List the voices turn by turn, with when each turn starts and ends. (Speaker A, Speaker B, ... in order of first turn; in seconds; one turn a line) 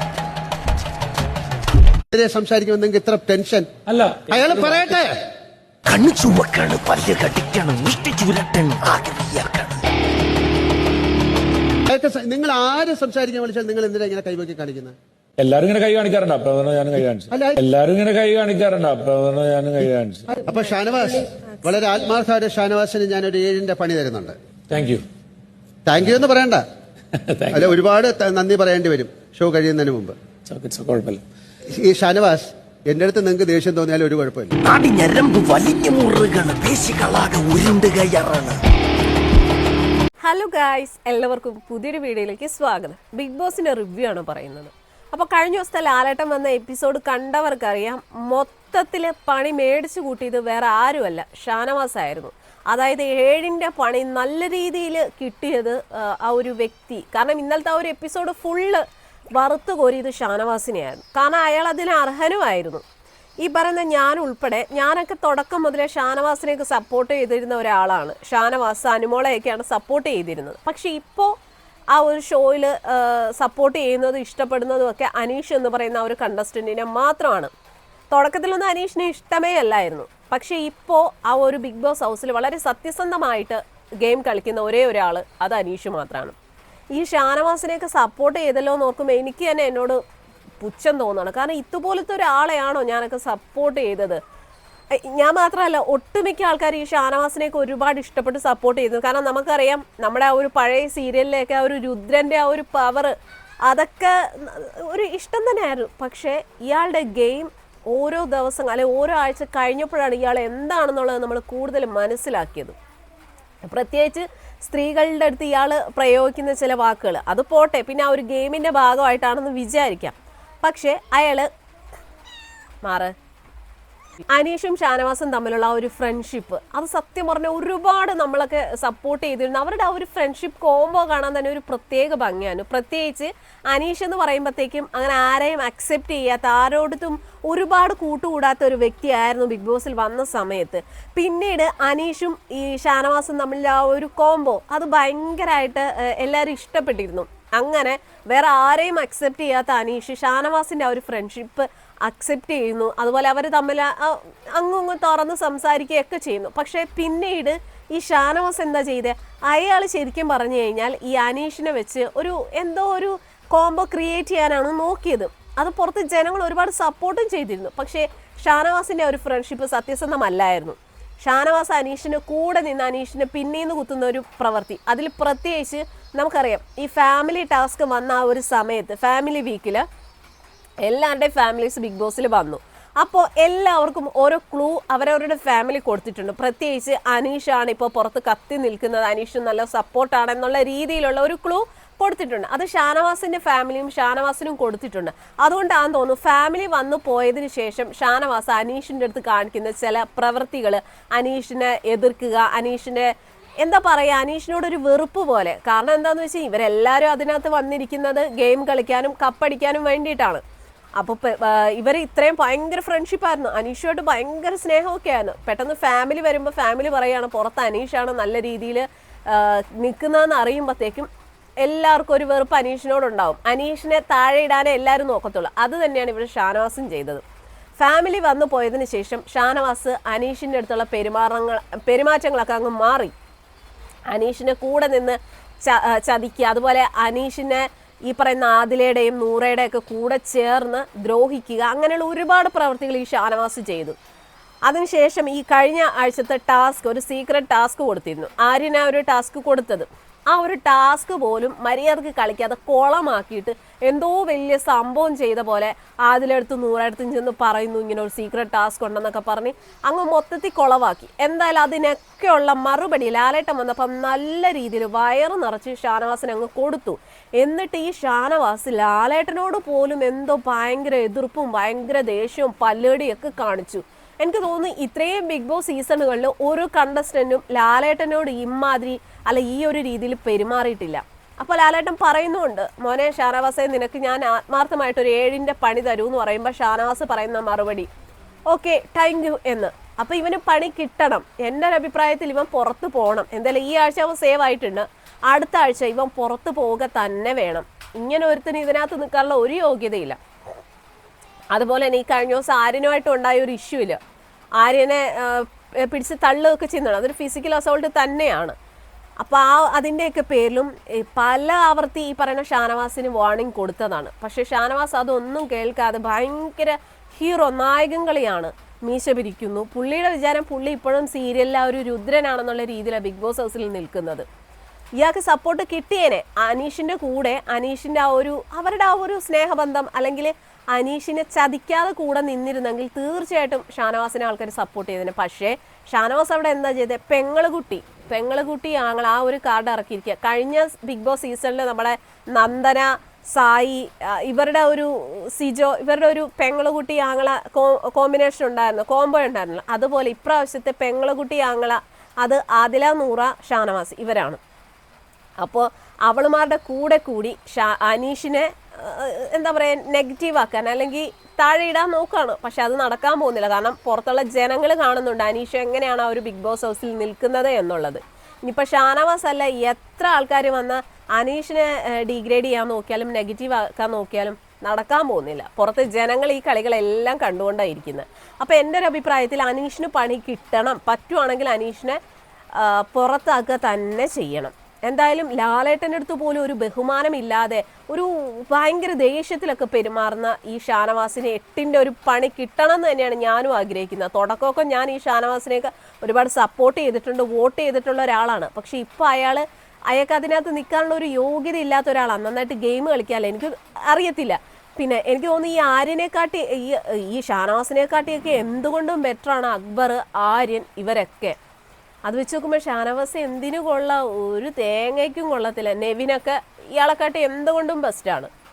Speaker A: 2.1-3.7
Speaker B: 3.9-4.8
Speaker A: 4.3-5.2
Speaker C: 5.9-9.8
Speaker A: 11.9-14.9
Speaker B: 15.4-20.3
Speaker A: 17.3-17.6
Speaker A: 20.4-24.4
Speaker B: 24.7-25.0
Speaker A: 25.9-26.6
Speaker B: 27.2-27.7
Speaker A: 27.5-30.2
Speaker B: 30.5-31.2
Speaker A: 31.7-34.5
Speaker C: 34.6-38.6
Speaker D: 40.2-62.8
Speaker D: 63.4-71.3
Speaker D: 71.9-77.5
Speaker D: 78.1-86.4
Speaker D: 86.9-90.0
Speaker D: 90.6-94.2
Speaker D: 94.9-103.1
Speaker D: 103.7-112.8
Speaker D: 113.7-121.5
Speaker D: 122.8-123.1
Speaker D: 124.3-179.9
Speaker D: 180.8-210.4
Speaker D: 211.0-221.1
Speaker D: 221.6-227.2
Speaker D: 227.8-233.1
Speaker D: 234.1-244.0
Speaker D: 244.7-287.9
Speaker D: 288.5-300.2
Speaker D: 301.5-304.0
Speaker D: 304.6-308.6
Speaker D: 309.2-324.3
Speaker D: 325.0-354.4
Speaker D: 355.4-382.0
Speaker D: 382.6-411.4
Speaker D: 412.1-418.3